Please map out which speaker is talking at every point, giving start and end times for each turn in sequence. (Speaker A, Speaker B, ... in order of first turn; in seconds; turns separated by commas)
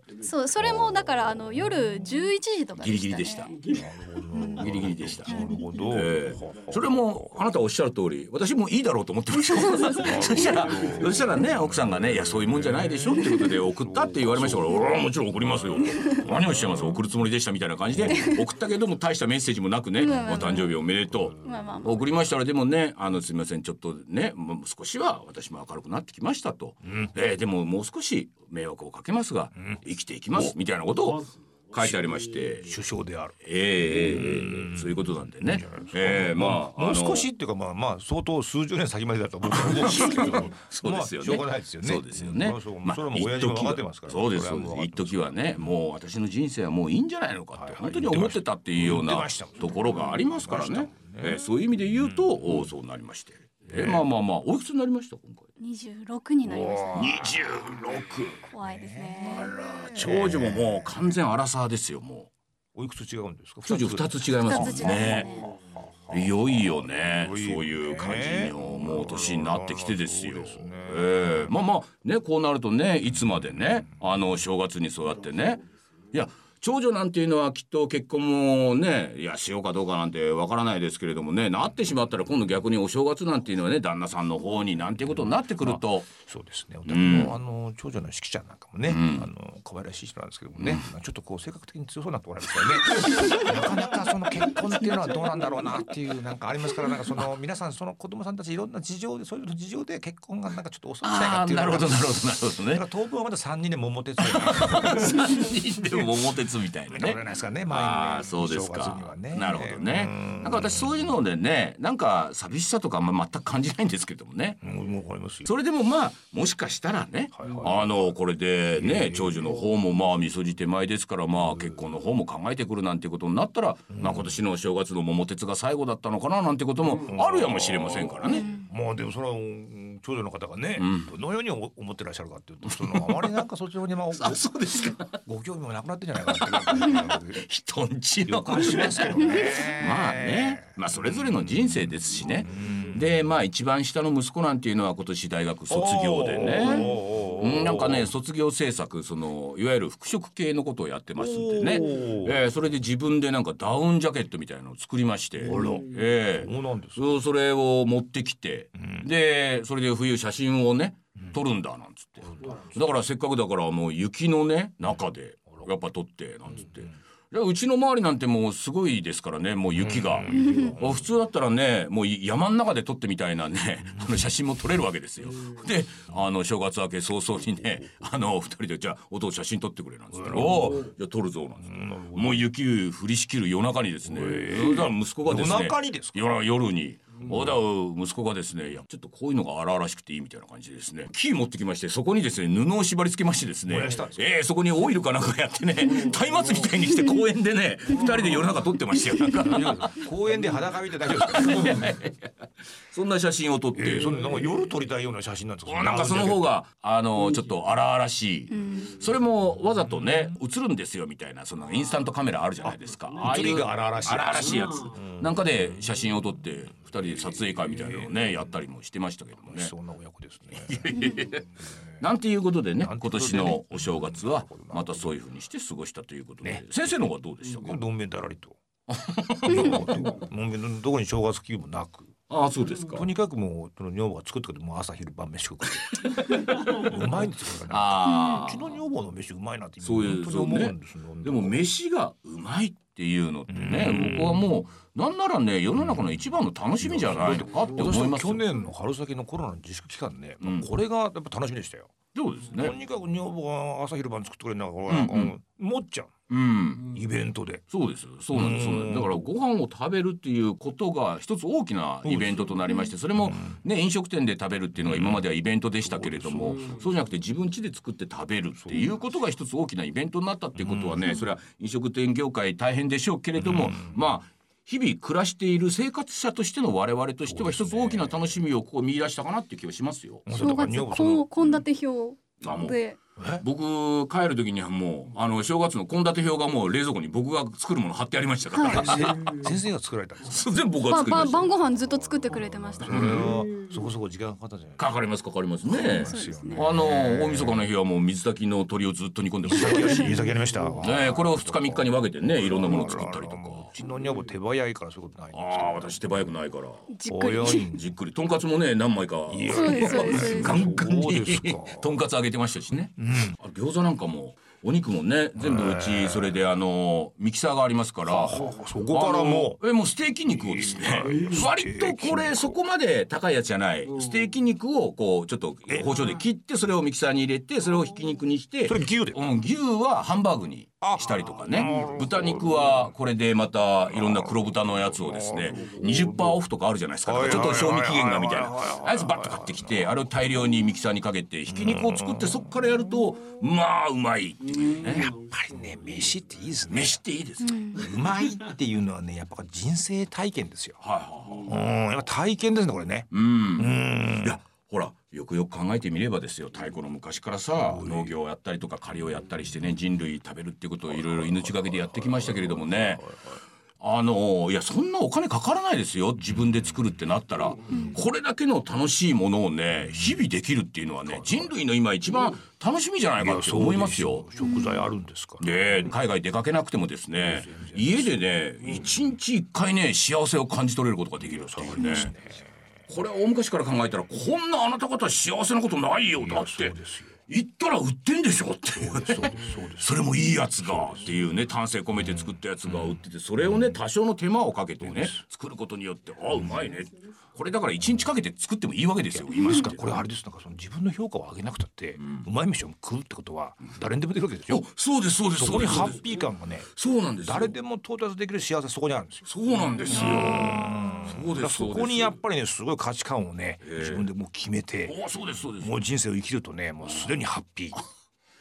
Speaker A: 0.2-3.7, Speaker B: 2.8-3.6, Speaker C: 3.7-7.4, Speaker A: 4.3-4.6, Speaker B: 4.5-32.7, Speaker A: 5.3-5.7, Speaker C: 9.9-14.8, Speaker C: 15.4-17.0, Speaker C: 17.9-18.2, Speaker A: 18.1-18.4, Speaker A: 20.0-20.8, Speaker C: 21.1-21.8, Speaker A: 21.4-22.2, Speaker C: 32.6-45.4, Speaker B: 33.4-37.3, Speaker B: 39.5-55.5, Speaker C: 47.5-51.4, Speaker C: 53.7-54.0, Speaker A: 55.6-57.2, Speaker C: 56.4-58.0, Speaker B: 57.0-58.5, Speaker A: 58.5-59.5, Speaker C: 58.5-61.1, Speaker B: 59.3-62.3, Speaker C: 62.7-65.3, Speaker B: 63.6-65.3, Speaker A: 64.4-65.5, Speaker C: 65.8-71.5, Speaker B: 66.1-86.1, Speaker C: 85.6-102.1, Speaker B: 86.8-87.3, Speaker B: 88.8-89.3, Speaker B: 90.6-90.8, Speaker B: 93.0-93.4, Speaker B: 101.0-102.8, Speaker C: 102.7-105.4, Speaker B: 104.2-114.6, Speaker C: 105.9-106.2, Speaker C: 106.9-111.1, Speaker C: 114.6-115.5, Speaker B: 115.5-128.5, Speaker C: 117.3-118.1, Speaker C: 118.8-119.5, Speaker C: 123.9-124.4, Speaker C: 127.0-134.5, Speaker A: 128.3-128.6, Speaker B: 130.8-131.1, Speaker B: 132.6-133.4, Speaker B: 134.1-135.2, Speaker C: 135.1-137.4, Speaker B: 136.2-200.0, Speaker C: 138.2-143.1, Speaker A: 139.2-139.6, Speaker C: 145.7-148.1, Speaker C: 151.2-152.4, Speaker C: 155.4-157.0, Speaker C: 158.8-159.1, Speaker C: 162.3-162.8, Speaker C: 169.7-171.1, Speaker A: 170.3-170.7, Speaker C: 180.1-180.8, Speaker C: 181.6-182.5, Speaker C: 184.1-186.2, Speaker C: 187.3-187.5, Speaker C: 193.7-194.2, Speaker C: 199.3-201.9, Speaker B: 201.0-204.6, Speaker C: 203.8-206.5, Speaker B: 205.7-219.7, Speaker A: 208.5-208.9, Speaker C: 209.9-210.3, Speaker C: 212.6-215.6, Speaker C: 217.4-218.2, Speaker C: 219.4-221.0, Speaker B: 220.5-227.8, Speaker C: 222.8-225.1, Speaker C: 226.4-226.9, Speaker C: 227.6-228.6, Speaker B: 228.9-230.1, Speaker C: 229.4-232.1, Speaker B: 232.3-233.1, Speaker C: 232.8-241.6, Speaker B: 235.9-237.1, Speaker B: 237.7-238.7, Speaker A: 238.1-238.5, Speaker B: 239.8-248.5, Speaker C: 243.5-244.5, Speaker C: 245.8-246.2, Speaker C: 246.8-251.9, Speaker B: 250.4-250.7, Speaker B: 252.1-252.8, Speaker C: 252.5-256.1, Speaker B: 254.9-255.3, Speaker B: 256.3-256.9, Speaker C: 256.9-257.6, Speaker B: 257.7-280.4, Speaker C: 258.3-259.2, Speaker C: 262.0-262.6, Speaker C: 263.2-263.6, Speaker C: 264.9-265.2, Speaker C: 265.8-266.8, Speaker C: 268.6-269.0, Speaker C: 270.6-271.2, Speaker C: 273.4-274.0, Speaker C: 277.3-278.4, Speaker C: 280.2-281.2, Speaker A: 280.3-283.0, Speaker B: 282.4-282.8, Speaker C: 283.2-283.4, Speaker B: 283.4-289.5, Speaker A: 288.5-289.1, Speaker C: 288.7-294.9, Speaker B: 290.2-291.5, Speaker A: 290.9-293.3, Speaker B: 292.9-293.4, Speaker B: 294.8-300.2, Speaker C: 295.6-297.6, Speaker A: 295.9-296.6, Speaker C: 299.4-306.2, Speaker B: 300.8-303.7, Speaker B: 305.3-306.9, Speaker A: 306.9-307.7, Speaker C: 307.1-307.8, Speaker B: 307.7-345.1, Speaker C: 309.3-312.0, Speaker A: 309.5-310.7, Speaker C: 313.0-313.4, Speaker C: 315.4-316.4, Speaker C: 318.0-319.6, Speaker C: 320.3-322.6, Speaker C: 325.7-326.2, Speaker C: 328.6-329.2, Speaker C: 330.8-332.8, Speaker C: 333.9-336.4, Speaker C: 337.0-340.0, Speaker C: 341.5-342.8, Speaker C: 344.6-347.0, Speaker B: 346.7-347.7, Speaker A: 347.4-347.8, Speaker C: 347.7-354.4, Speaker B: 350.8-351.5, Speaker B: 353.1-363.1, Speaker C: 357.6-358.1, Speaker C: 360.9-363.4, Speaker B: 363.8-374.3, Speaker C: 371.0-371.5, Speaker C: 373.2-375.5, Speaker A: 374.4-374.8, Speaker B: 375.4-382.1, Speaker C: 377.2-378.2, Speaker C: 381.2-382.5, Speaker B: 382.9-400.0, Speaker C: 386.2-387.1, Speaker C: 388.7-391.2, Speaker C: 391.9-393.0, Speaker C: 394.8-395.2, Speaker C: 399.1-404.6, Speaker B: 402.0-402.3, Speaker B: 404.5-406.2, Speaker C: 405.3-406.7, Speaker B: 406.7-407.5, Speaker C: 407.2-409.3, Speaker B: 409.2-412.2, Speaker C: 409.8-415.0, Speaker A: 409.9-411.0, Speaker B: 413.6-414.1, Speaker B: 414.9-415.7, Speaker C: 415.5-417.8